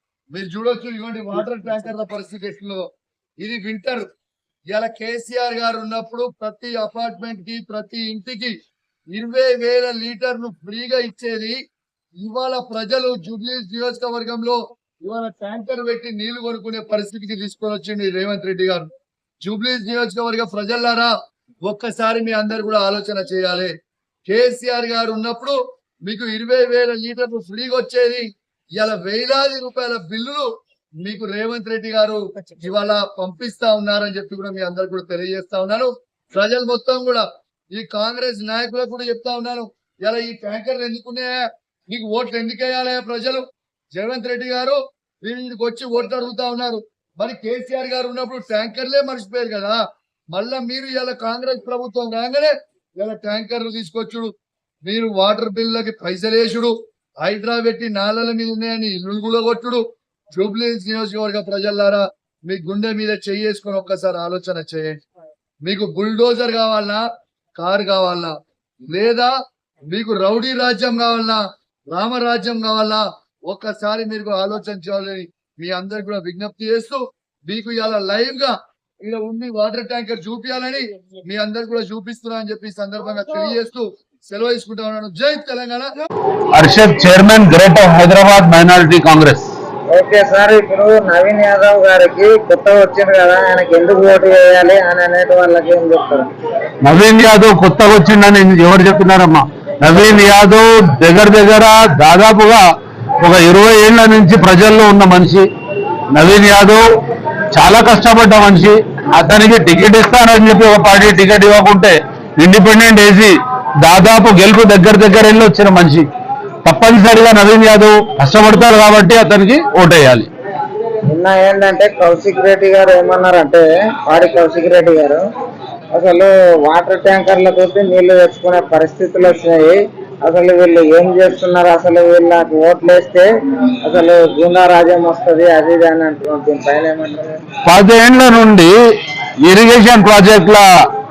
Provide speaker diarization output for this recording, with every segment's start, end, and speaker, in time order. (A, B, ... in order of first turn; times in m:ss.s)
0:00.3-0:02.8 A
0:03.4-0:04.0 A
0:04.7-0:08.5 A
0:09.1-0:11.6 A
0:12.2-0:18.9 A
0:19.4-0:21.1 A
0:21.7-0:23.7 A
0:24.3-0:28.2 A
0:28.8-0:30.4 A
0:31.0-0:49.8 A
0:50.3-0:54.3 A
0:54.8-0:59.8 A
1:00.4-1:05.0 A
1:05.6-1:07.0 A
1:07.6-1:08.3 A
1:08.9-1:09.3 A
1:09.9-1:11.4 A
1:11.9-1:25.9 A
1:26.5-1:29.5 B
1:29.9-1:36.3 C
1:36.8-1:42.6 B
1:43.2-1:45.4 B
1:46.1-1:46.8 B
1:47.5-1:56.0 B
1:56.6-2:00.3 B
2:01.1-2:05.2 C
2:05.9-2:13.3 C
2:13.8-2:17.4 C
2:17.6-2:18.7 B
2:19.4-2:20.6 B